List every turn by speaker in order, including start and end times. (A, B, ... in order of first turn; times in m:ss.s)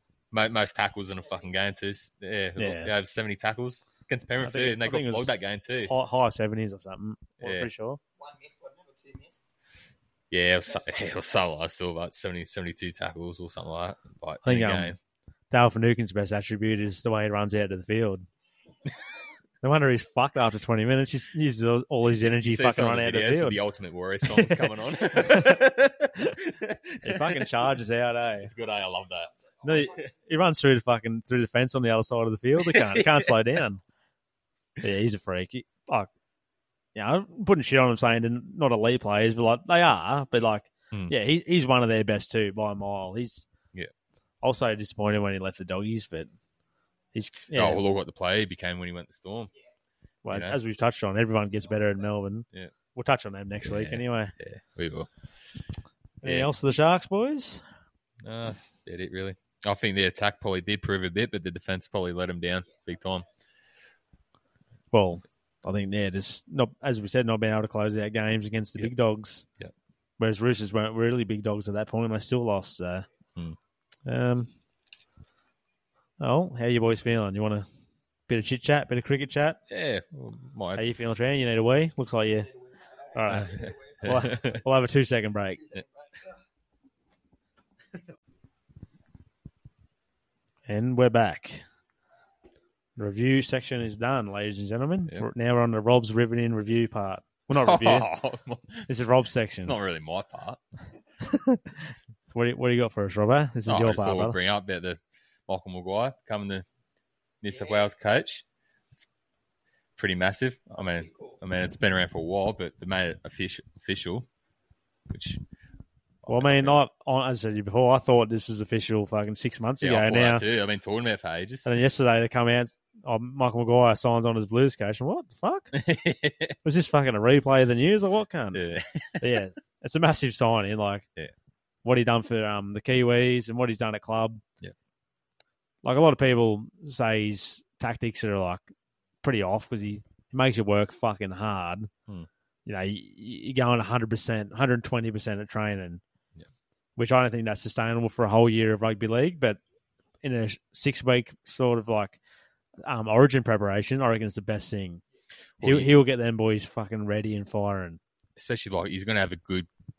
0:00.3-0:05.9 A
0:02.6-0:02.9 B
0:04.4-0:05.3 B
0:05.9-0:08.0 B
0:07.4-0:07.7 A
0:08.2-0:09.4 C
0:10.3-0:15.0 A
0:14.4-0:14.9 B
0:15.5-0:18.3 B
0:19.6-0:23.6 B
0:22.2-0:27.7 A
0:24.2-0:26.4 B
0:27.0-0:28.5 B
0:28.4-0:30.0 A
0:29.6-0:33.8 B
0:32.6-0:33.4 A
0:34.8-0:36.1 B
0:36.9-0:43.5 B
0:44.4-0:46.3 B
0:47.1-0:47.8 B
0:47.5-0:49.5 A
0:50.2-0:54.3 B
0:50.3-0:50.6 A
0:53.6-0:55.1 A
0:56.2-0:57.6 B
0:56.2-0:56.5 A
0:58.2-1:03.2 A
1:04.9-1:09.4 B
1:10.2-1:13.0 B
1:14.0-1:14.5 B
1:16.2-1:17.6 B
1:18.3-1:19.6 B
1:19.7-1:20.8 A
1:20.8-1:22.5 B
1:22.7-1:24.5 C
1:23.1-1:25.6 B
1:23.4-1:24.6 A
1:25.6-1:26.1 C
1:30.7-1:31.6 B
1:33.0-1:38.1 B
1:37.5-1:38.9 A
1:38.9-1:39.8 B
1:39.6-1:40.6 A
1:41.2-1:44.4 B
1:43.6-1:46.6 A
1:47.4-1:49.1 A
1:50.0-1:54.3 A
1:55.1-1:55.4 A
1:56.2-1:56.8 A
1:56.3-2:00.4 B
1:59.8-2:01.8 A
2:01.6-2:05.8 B
2:05.7-2:06.6 A
2:06.6-2:08.6 B
2:08.5-2:09.3 A
2:09.2-2:11.0 B
2:11.8-2:14.4 B
2:15.8-2:18.6 B
2:19.2-2:21.9 B
2:22.6-2:26.0 B
2:27.0-2:29.6 B
2:30.2-2:32.2 B
2:32.8-2:35.0 B
2:35.6-2:35.9 A
2:35.6-2:38.0 B
2:38.4-2:39.7 A